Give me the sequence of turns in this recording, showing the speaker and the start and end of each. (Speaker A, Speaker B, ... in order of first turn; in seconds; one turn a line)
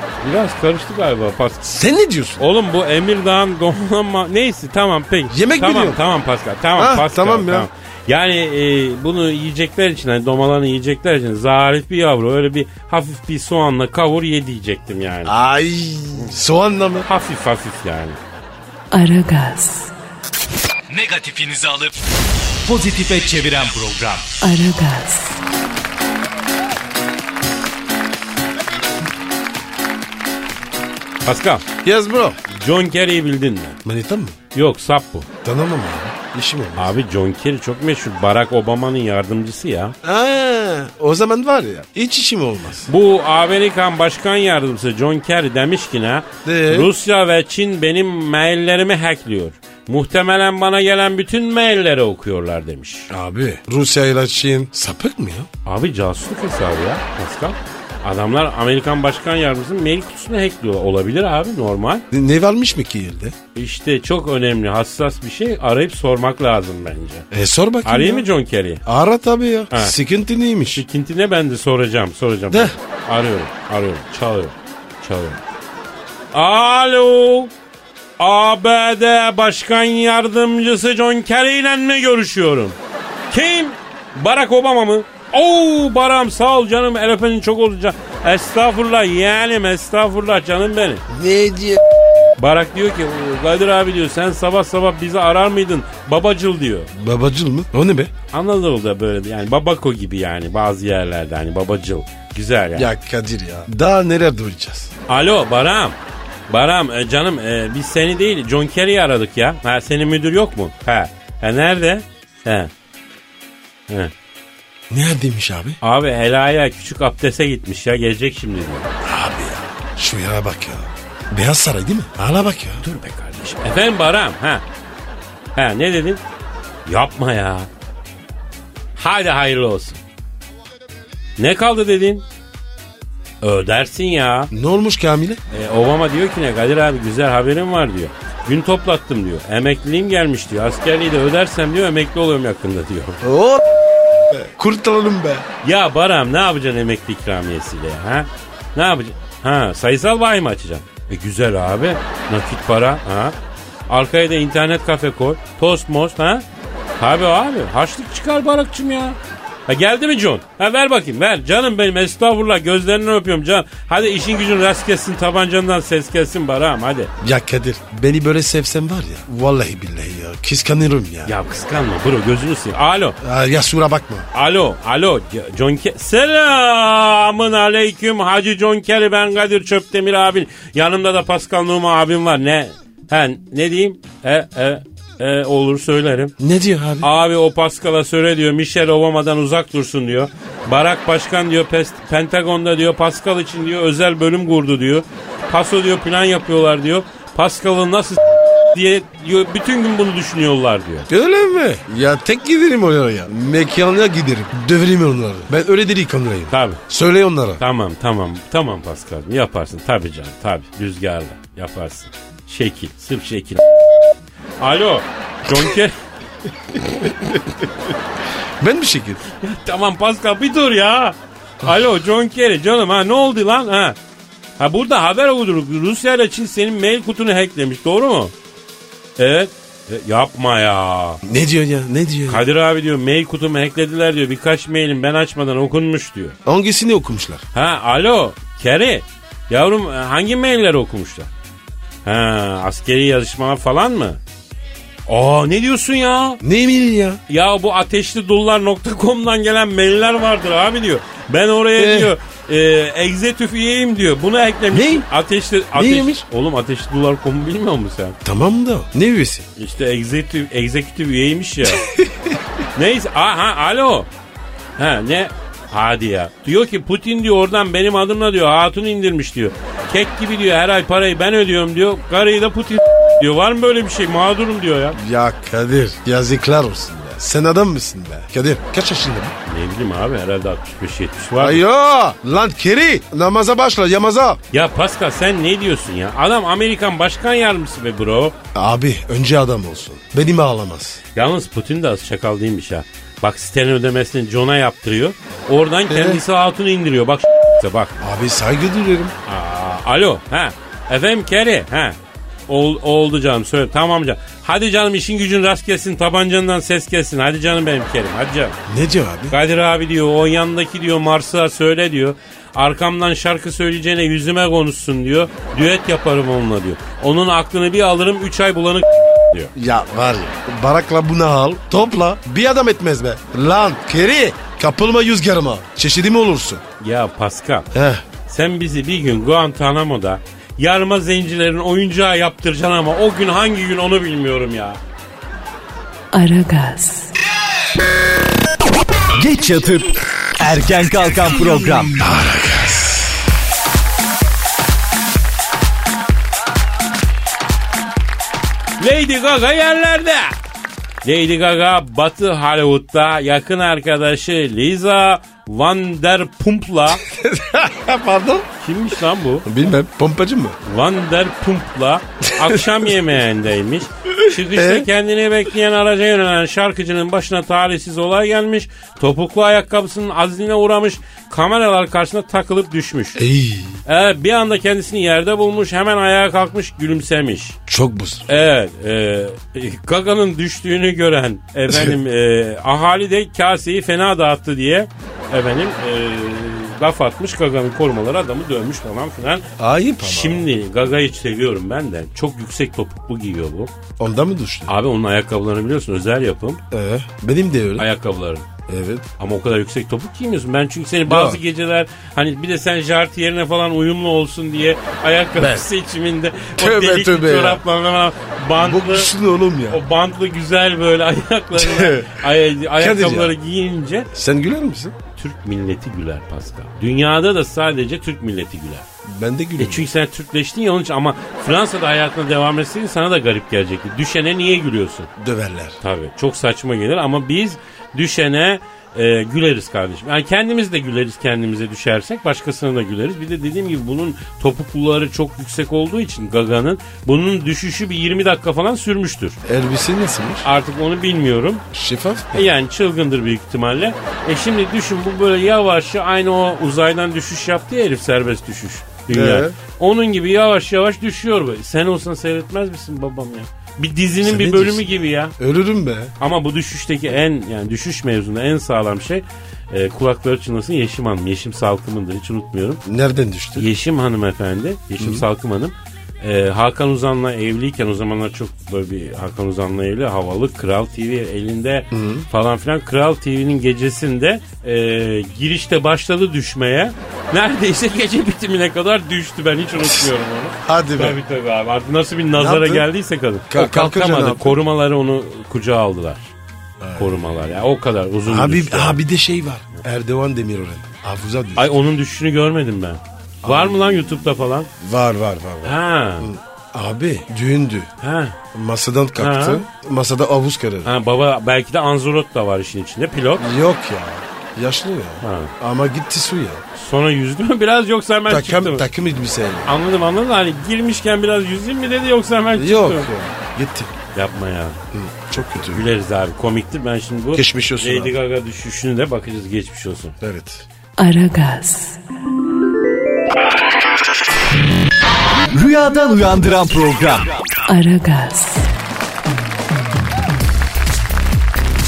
Speaker A: 0.2-1.8
Speaker B: 1.6-2.4
Speaker A: 2.4-15.3
Speaker B: 5.3-6.0
Speaker B: 6.8-7.7
Speaker B: 15.2-17.1
Speaker A: 17.1-18.2
Speaker C: 18.9-19.9
Speaker D: 20.9-22.0
Speaker D: 22.6-24.4
Speaker C: 24.4-25.4
Speaker A: 31.2-31.6
Speaker B: 31.8-32.4
Speaker A: 32.5-33.8
Speaker B: 33.8-34.4
Speaker A: 34.5-35.3
Speaker B: 35.4-36.9
Speaker A: 36.8-39.9
Speaker B: 40.0-42.9
Speaker A: 42.9-53.1
Speaker B: 46.4-46.9
Speaker B: 53.1-55.5
Speaker A: 55.6-62.0
Speaker B: 62.1-63.4
Speaker A: 63.5-67.2
Speaker B: 67.3-68.3
Speaker A: 67.8-68.8
Speaker B: 68.8-70.8
Speaker A: 70.7-75.4
Speaker A: 76.3-77.5
Speaker A: 78.2-82.8
Speaker A: 83.3-91.0
Speaker B: 91.1-91.8
Speaker A: 92.4-96.9
Speaker B: 96.9-98.1
Speaker A: 98.3-102.9
Speaker B: 102.7-104.9
Speaker A: 105.1-106.0
Speaker A: 106.5-112.7
Speaker B: 114.9-115.8
Speaker A: 115.8-118.9
Speaker B: 119.0-122.8
Speaker A: 122.8-124.6
Speaker A: 125.5-126.2
Speaker A: 126.8-127.7
Speaker A: 128.9-130.0
Speaker A: 131.4-132.2
Speaker A: 133.4-134.5
Speaker B: 134.5-135.4
Speaker A: 135.5-143.2
Speaker B: 143.2-143.7
Speaker B: 144.3-145.4
Speaker A: 145.6-153.3
Speaker A: 153.9-156.4
Speaker A: 157.0-167.1
Speaker B: 167.2-171.3
Speaker A: 171.2-173.2
Speaker B: 173.2-174.3
Speaker A: 174.3-186.3
Speaker B: 186.4-187.1
Speaker A: 187.0-198.2
Speaker A: 198.7-201.1
Speaker B: 201.1-207.6
Speaker A: 206.5-206.8
Speaker A: 207.6-213.6
Speaker A: 214.6-215.9
Speaker B: 216.7-217.5
Speaker B: 218.6-219.2
Speaker A: 219.3-223.9
Speaker A: 224.6-228.3
Speaker A: 229.2-231.2
Speaker B: 231.2-232.4
Speaker A: 232.3-236.3
Speaker B: 236.4-237.4
Speaker A: 237.5-241.3
Speaker A: 242.0-244.2
Speaker A: 245.1-246.4
Speaker B: 246.4-247.2
Speaker A: 247.3-258.2
Speaker B: 251.8-252.1
Speaker B: 254.7-255.1
Speaker B: 255.7-256.2
Speaker B: 258.2-259.4
Speaker A: 259.6-261.8
Speaker B: 261.8-262.4
Speaker A: 262.7-264.1
Speaker A: 264.8-275.0
Speaker B: 274.9-279.4
Speaker A: 279.4-281.6
Speaker B: 281.4-284.4
Speaker A: 284.5-288.3
Speaker B: 288.5-291.0
Speaker A: 291.1-298.0
Speaker B: 295.9-296.2
Speaker B: 298.0-299.1
Speaker A: 299.2-302.0
Speaker A: 302.5-308.6
Speaker B: 308.7-309.4
Speaker A: 309.3-319.5
Speaker B: 319.5-326.6
Speaker A: 326.8-327.7
Speaker B: 327.7-328.0
Speaker A: 328.2-334.8
Speaker C: 336.1-337.1
Speaker D: 339.1-342.0
Speaker B: 342.0-343.2
Speaker A: 348.8-350.3
Speaker A: 351.0-357.0
Speaker B: 357.0-358.5
Speaker A: 358.6-359.5
Speaker B: 359.4-360.6
Speaker A: 360.6-373.2
Speaker B: 364.2-364.9
Speaker B: 373.1-373.8
Speaker A: 373.9-377.6
Speaker B: 377.7-378.3
Speaker A: 378.3-389.5
Speaker B: 389.6-390.4
Speaker A: 390.0-393.7
Speaker B: 394.0-394.7
Speaker A: 394.7-396.6
Speaker B: 396.7-397.9
Speaker A: 397.8-398.4
Speaker B: 398.7-399.1
Speaker A: 399.2-409.1
Speaker B: 401.1-401.4
Speaker B: 405.4-405.6
Speaker B: 406.6-407.6
Speaker B: 408.6-409.8
Speaker A: 409.7-414.1
Speaker B: 411.5-412.2
Speaker B: 412.8-413.3
Speaker B: 414.1-414.9
Speaker A: 415.1-418.9
Speaker B: 419.0-419.9
Speaker A: 419.6-425.1
Speaker B: 425.2-425.8
Speaker A: 425.8-439.4
Speaker B: 439.4-440.4
Speaker A: 440.4-441.6
Speaker B: 441.7-442.5
Speaker A: 442.3-455.4
Speaker B: 449.1-449.6
Speaker B: 454.2-456.1
Speaker A: 456.2-462.8
Speaker B: 462.8-463.7
Speaker A: 463.6-486.3
Speaker B: 465.0-465.2
Speaker B: 471.9-472.3
Speaker B: 479.8-481.2
Speaker B: 482.3-482.9
Speaker B: 483.5-484.6
Speaker B: 486.8-487.1
Speaker A: 487.0-489.0
Speaker B: 488.2-491.7
Speaker A: 491.6-494.7
Speaker B: 493.4-493.9
Speaker B: 494.8-497.9
Speaker A: 495.6-496.3
Speaker A: 498.0-498.4
Speaker B: 498.5-500.9
Speaker A: 499.2-499.6
Speaker A: 500.8-503.4
Speaker B: 503.4-506.6
Speaker A: 505.2-505.5
Speaker A: 506.7-508.9
Speaker B: 508.3-509.7
Speaker A: 509.6-513.1
Speaker B: 512.5-513.9
Speaker A: 514.1-514.8
Speaker B: 514.9-515.9
Speaker A: 515.3-520.2
Speaker B: 517.3-518.1
Speaker B: 520.2-520.6
Speaker C: 521.0-522.0
Speaker D: 525.5-527.3
Speaker C: 527.6-528.7